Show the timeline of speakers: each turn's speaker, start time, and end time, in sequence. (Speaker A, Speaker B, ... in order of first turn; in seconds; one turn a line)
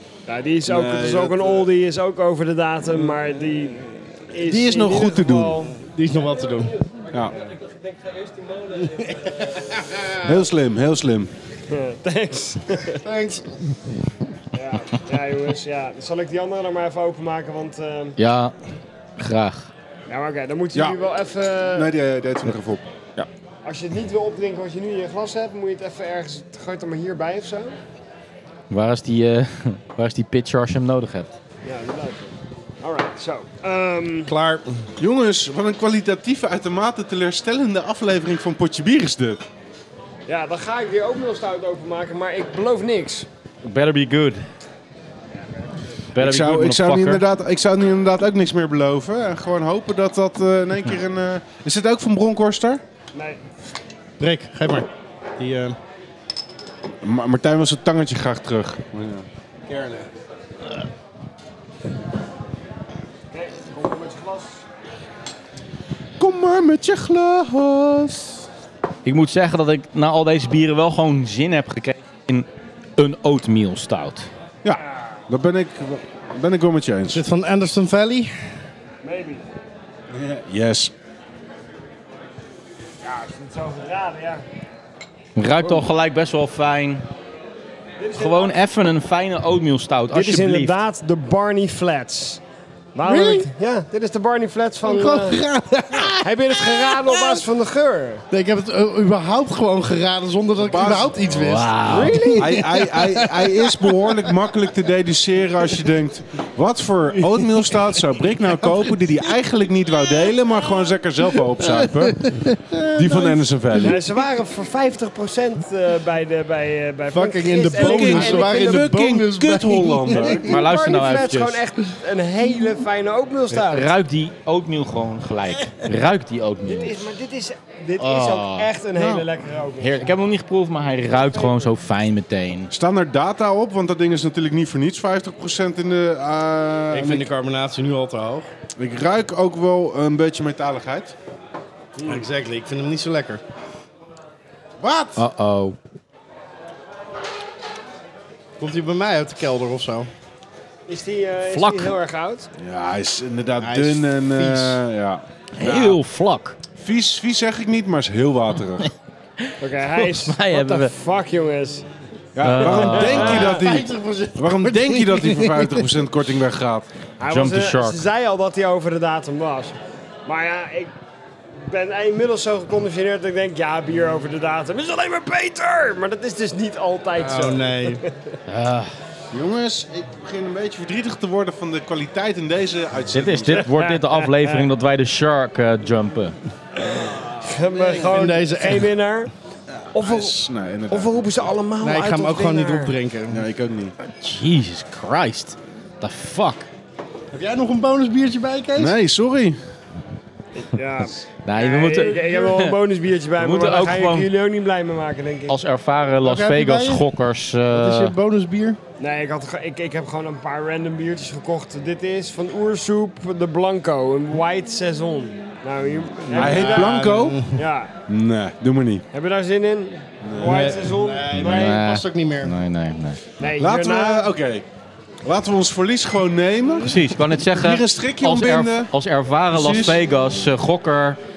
Speaker A: 0.3-5.7
Speaker B: 0.7-1.7
Speaker B: 4.3-5.6
Speaker C: 5.6-6.8
Speaker D: 6.2-9.8
Speaker C: 9.1-10.5
Speaker B: 10.2-11.3
Speaker A: 11.7-13.0
Speaker C: 12.9-13.5
Speaker A: 14.5-18.1
Speaker E: 18.2-18.5
Speaker E: 19.2-19.7
Speaker A: 20.1-21.9
Speaker B: 21.7-22.9
Speaker A: 23.6-27.8
Speaker E: 28.7-31.3
Speaker A: 31.6-34.3
Speaker C: 34.2-34.9
Speaker B: 35.0-39.4
Speaker A: 40.3-43.3
Speaker E: 43.6-44.5
Speaker E: 46.1-47.2
Speaker B: 46.2-52.8
Speaker A: 53.1-53.4
Speaker C: 54.2-55.8
Speaker B: 57.0-59.2
Speaker C: 59.6-60.1
Speaker A: 63.3-64.6
Speaker B: 66.2-68.4
Speaker E: 69.0-74.3
Speaker B: 74.6-77.2
Speaker C: 77.1-78.3
Speaker A: 79.0-79.5
Speaker B: 80.1-80.9
Speaker A: 83.0-84.4
Speaker E: 85.3-87.0
Speaker A: 88.0-88.6
Speaker E: 88.2-90.7
Speaker A: 90.1-92.4
Speaker A: 92.9-95.4
Speaker C: 93.0-93.5
Speaker C: 94.8-97.4
Speaker A: 96.0-98.2
Speaker C: 98.3-104.3
Speaker B: 100.6-101.1
Speaker E: 101.3-102.3
Speaker A: 101.9-102.7
Speaker B: 102.4-112.2
Speaker C: 107.2-108.9
Speaker C: 111.4-114.2
Speaker B: 112.9-114.0
Speaker A: 113.8-118.9
Speaker C: 117.1-120.5
Speaker B: 117.8-120.5
Speaker A: 120.1-123.9
Speaker E: 120.4-121.6
Speaker E: 123.5-127.0
Speaker A: 126.7-130.1
Speaker E: 128.0-128.7
Speaker B: 129.0-129.2
Speaker E: 129.8-132.7
Speaker A: 131.1-131.7
Speaker B: 132.7-137.3
Speaker C: 136.9-138.5
Speaker B: 138.8-141.1
Speaker C: 142.0-143.4
Speaker B: 144.8-145.2
Speaker E: 145.2-145.8
Speaker C: 148.6-150.1
Speaker A: 150.9-152.5
Speaker E: 151.5-151.9
Speaker B: 152.6-156.0
Speaker C: 153.6-154.8
Speaker E: 155.5-156.6
Speaker B: 156.8-158.9
Speaker E: 159.4-160.9
Speaker A: 159.6-161.8
Speaker B: 162.4-166.9
Speaker E: 162.4-163.5
Speaker A: 162.6-163.6
Speaker C: 163.2-165.9
Speaker A: 167.2-169.7
Speaker E: 167.3-168.0
Speaker A: 170.2-170.9
Speaker A: 171.6-178.3
Speaker C: 177.1-178.0
Speaker E: 178.5-178.9
Speaker B: 179.3-183.7
Speaker E: 183.1-186.3
Speaker A: 183.6-184.7
Speaker A: 186.8-189.3
Speaker B: 187.7-188.3
Speaker C: 188.0-188.9
Speaker A: 189.9-192.9
Speaker B: 189.9-191.5
Speaker C: 191.8-193.4
Speaker B: 193.3-193.9
Speaker E: 194.2-196.7
Speaker C: 197.3-199.0
Speaker B: 198.8-199.6
Speaker A: 200.6-205.6
Speaker E: 201.4-202.8
Speaker E: 203.4-204.3
Speaker E: 205.5-208.1
Speaker C: 206.2-207.0
Speaker C: 207.7-208.8
Speaker A: 209.0-217.0
Speaker C: 216.3-217.6
Speaker B: 216.3-217.4
Speaker A: 217.5-217.9
Speaker B: 218.1-219.0
Speaker A: 219.1-221.8
Speaker B: 220.2-220.7
Speaker C: 220.4-222.5
Speaker E: 221.4-223.2
Speaker A: 223.4-224.3
Speaker B: 223.6-224.7
Speaker B: 225.2-228.9
Speaker E: 226.8-231.2
Speaker B: 229.5-230.0